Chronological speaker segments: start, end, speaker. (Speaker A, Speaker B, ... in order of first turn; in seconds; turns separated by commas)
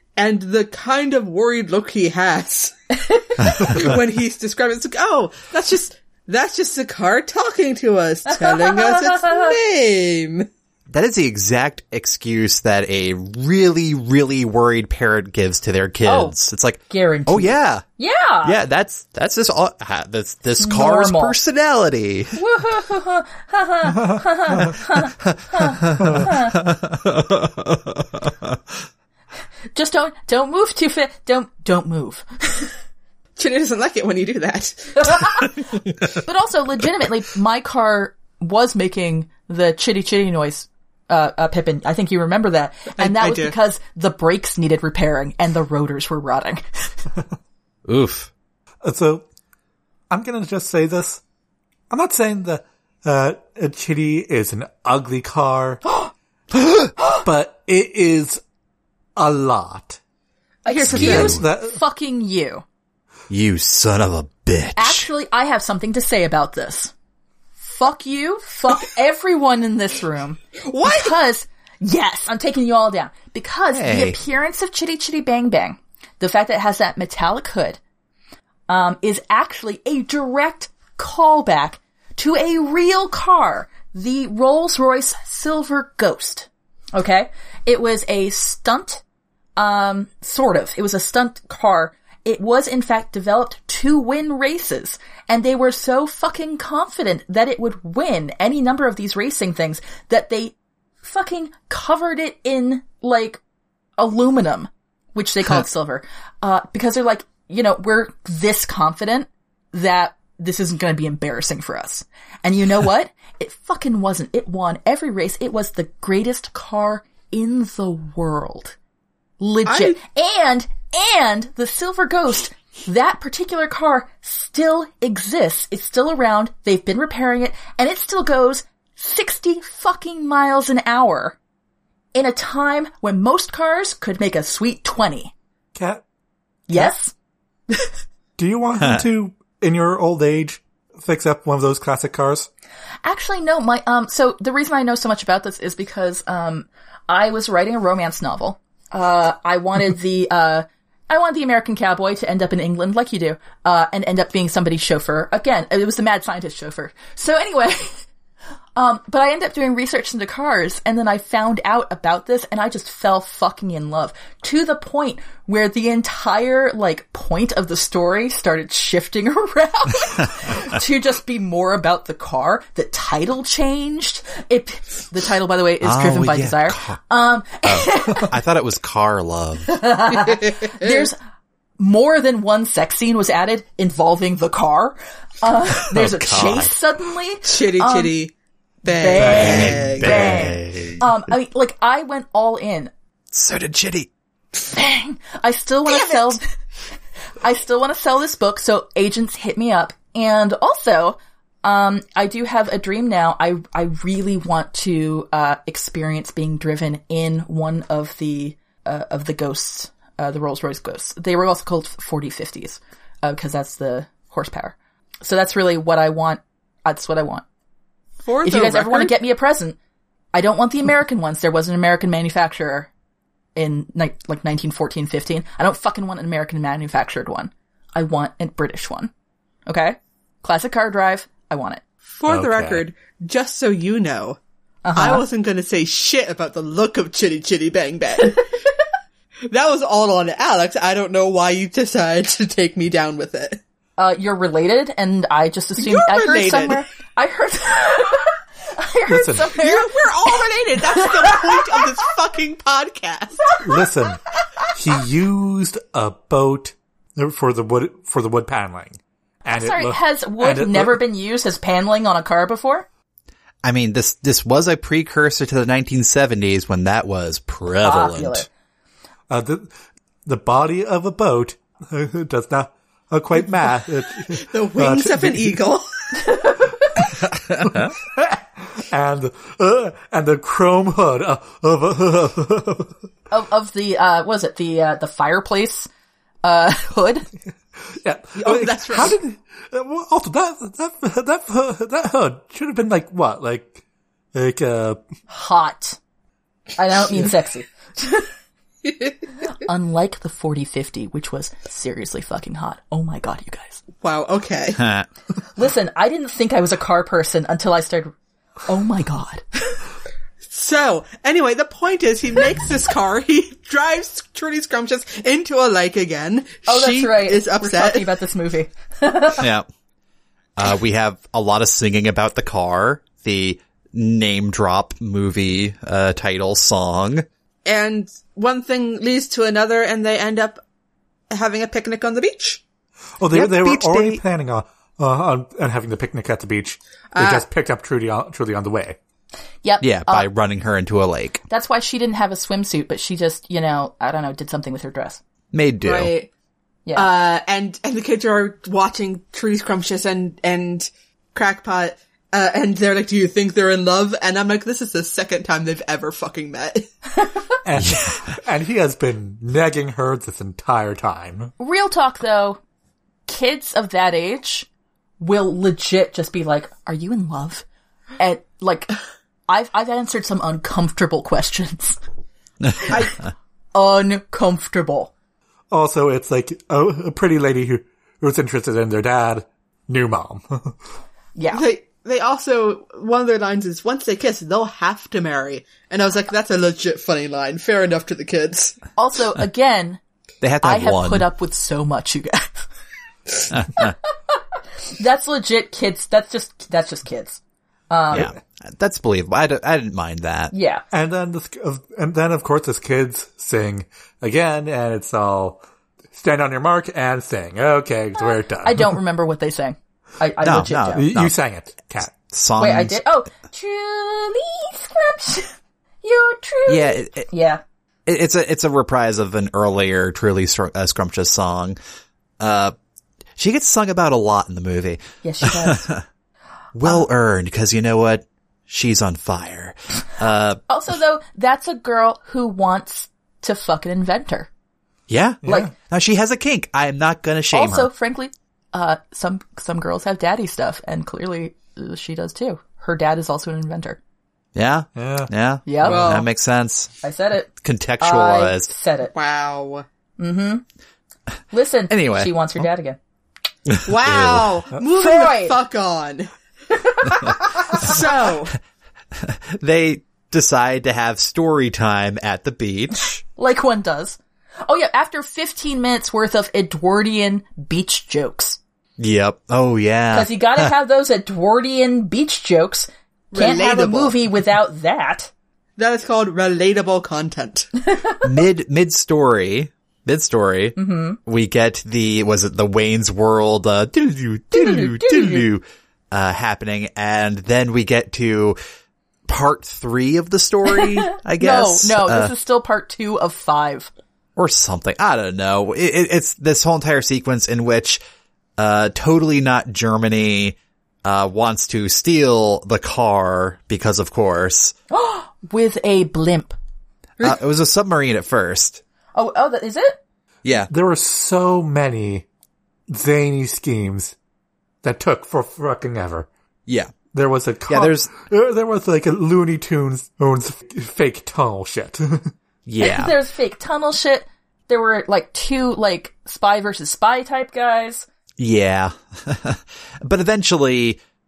Speaker A: 0.2-2.7, Speaker A: 3.4-10.5, Speaker B: 8.3-9.5, Speaker C: 10.9-17.8, Speaker B: 16.0-16.3, Speaker B: 16.9-18.6, Speaker C: 18.4-22.4, Speaker B: 20.6-21.4, Speaker B: 22.3-26.6, Speaker C: 25.2-28.6, Speaker B: 29.7-32.7, Speaker A: 33.4-35.5, Speaker B: 35.1-35.5, Speaker B: 36.2-47.0, Speaker A: 43.0-43.5, Speaker C: 47.9-48.3, Speaker D: 48.8-49.2, Speaker D: 50.1-51.2, Speaker D: 51.9-55.8, Speaker D: 57.2-58.4, Speaker D: 59.1-60.0, Speaker B: 60.6-62.6, Speaker A: 60.6-61.4, Speaker C: 60.9-61.4, Speaker D: 60.9-61.8, Speaker C: 63.3-65.1, Speaker B: 64.8-66.9, Speaker B: 67.6-77.8, Speaker A: 70.6-71.2, Speaker C: 73.7-74.2, Speaker B: 78.7-89.0, Speaker B: 89.6-103.4, Speaker B: 104.0-118.8, Speaker B: 119.4-131.3, Speaker A: 119.7-120.0, Speaker B: 132.1-135.3, Speaker D: 135.7-136.0, Speaker B: 136.7-137.1, Speaker D: 138.4-142.5, Speaker B: 143.0-158.0, Speaker B: 158.8-178.3, Speaker C: 175.8-177.0, Speaker C: 177.6-179.8, Speaker B: 179.7-181.2, Speaker A: 180.1-181.1, Speaker B: 181.8-188.1, Speaker C: 185.8-186.7, Speaker A: 187.4-188.3, Speaker A: 188.8-190.4, Speaker B: 188.8-192.9, Speaker D: 189.2-189.8, Speaker C: 189.3-191.1, Speaker C: 193.3-194.1, Speaker B: 194.7-196.4, Speaker A: 195.9-196.3, Speaker B: 197.4-217.4, Speaker A: 218.2-219.2, Speaker B: 218.4-219.8, Speaker B: 220.3-222.9, Speaker B: 223.6-229.1, Speaker B: 229.7-231.8, Speaker A: 232.1-234.4, Speaker D: 232.3-232.8, Speaker B: 234.8-235.2, Speaker A: 234.9-238.4, Speaker A: 239.5-243.6, Speaker B: 244.0-251.8, Speaker A: 245.8-246.8, Speaker D: 249.1-249.6, Speaker A: 249.6-253.6, Speaker D: 253.6-254.2, Speaker D: 254.7-261.0, Speaker B: 259.5-262.9, Speaker C: 263.6-268.4, Speaker B: 267.8-268.5, Speaker D: 269.3-269.7, Speaker D: 270.2-275.6, Speaker A: 274.3-275.8, Speaker B: 276.2-276.7, Speaker C: 277.3-277.9, Speaker D: 277.6-282.9, Speaker B: 283.3-285.9, Speaker B: 286.4-287.3, Speaker D: 287.9-293.8, Speaker A: 288.4-289.2, Speaker D: 294.3-295.0, Speaker B: 295.3-296.0, Speaker B: 296.8-298.3, Speaker B: 299.5-303.8, Speaker A: 304.0-304.8, Speaker C: 304.8-305.1, Speaker B: 305.6-308.1, Speaker B: 308.6-309.8, Speaker A: 310.5-318.1, Speaker B: 316.6-319.5, Speaker C: 319.4-319.7, Speaker C: 320.6-327.2, Speaker A: 327.6-330.6, Speaker A: 331.3-332.6, Speaker D: 333.2-339.0, Speaker C: 333.3-334.2, Speaker A: 337.1-337.4, Speaker B: 339.6-340.3, Speaker C: 339.8-341.4, Speaker B: 341.5-345.2, Speaker C: 345.5-346.1, Speaker A: 345.8-346.3, Speaker B: 346.9-347.1, Speaker A: 346.9-356.9, Speaker D: 357.6-361.5, Speaker C: 357.8-358.2, Speaker B: 361.6-362.6, Speaker B: 363.3-364.7, Speaker B: 365.2-367.6, Speaker B: 368.2-368.9, Speaker B: 369.5-372.0, Speaker B: 372.8-373.1, Speaker A: 372.9-373.2, Speaker B: 373.7-375.1, Speaker D: 375.7-380.7, Speaker B: 381.4-381.6, Speaker A: 381.5-388.8, Speaker B: 388.9-390.0, Speaker C: 390.4-391.3, Speaker B: 390.6-392.7, Speaker C: 393.5-393.9, Speaker B: 393.7-394.4, Speaker B: 394.9-398.3, Speaker C: 398.1-400.5, Speaker B: 400.5-400.8, Speaker D: 400.9-405.6, Speaker D: 406.1-408.9, Speaker B: 408.2-411.1, Speaker C: 410.4-411.3, Speaker D: 410.9-412.1, Speaker C: 412.0-413.0, Speaker B: 412.6-417.6, Speaker C: 416.7-417.3, Speaker C: 418.1-421.8, Speaker C: 422.4-422.7, Speaker C: 423.4-426.0, Speaker B: 425.2-425.9, Speaker C: 426.7-430.6, Speaker B: 430.7-434.5, Speaker C: 435.1-437.9, Speaker D: 435.4-435.7, Speaker B: 435.4-435.7, Speaker B: 437.5-444.0, Speaker C: 444.5-446.9, Speaker D: 444.9-445.3, Speaker B: 445.6-446.1, Speaker A: 445.8-446.3, Speaker B: 447.0-449.1, Speaker C: 447.6-448.7, Speaker A: 449.1-449.8, Speaker B: 450.2-450.6, Speaker B: 451.5-453.0, Speaker C: 451.9-452.6, Speaker C: 453.7-454.6, Speaker A: 453.9-456.3, Speaker B: 454.9-455.6, Speaker B: 456.8-458.0, Speaker A: 457.2-458.5, Speaker C: 459.1-463.2, Speaker B: 463.4-468.6, Speaker C: 469.0-470.7, Speaker B: 470.1-475.3, Speaker A: 473.3-474.1, Speaker A: 475.8-477.7, Speaker B: 477.9-478.2, Speaker C: 478.2-488.6, Speaker B: 480.8-481.2, Speaker B: 484.5-485.5, Speaker C: 489.3-492.3, Speaker B: 490.7-493.9, Speaker C: 494.4-498.0, Speaker C: 498.6-504.7, Speaker B: 504.9-506.5, Speaker C: 507.2-508.8, Speaker B: 509.1-510.0, Speaker C: 510.4-510.7, Speaker D: 510.7-512.2, Speaker D: 512.9-514.1, Speaker D: 514.8-516.3, Speaker C: 516.7-516.9, Speaker D: 517.1-522.3, Speaker C: 517.7-518.1, Speaker C: 522.6-523.1, Speaker B: 522.8-528.0, Speaker C: 528.4-531.0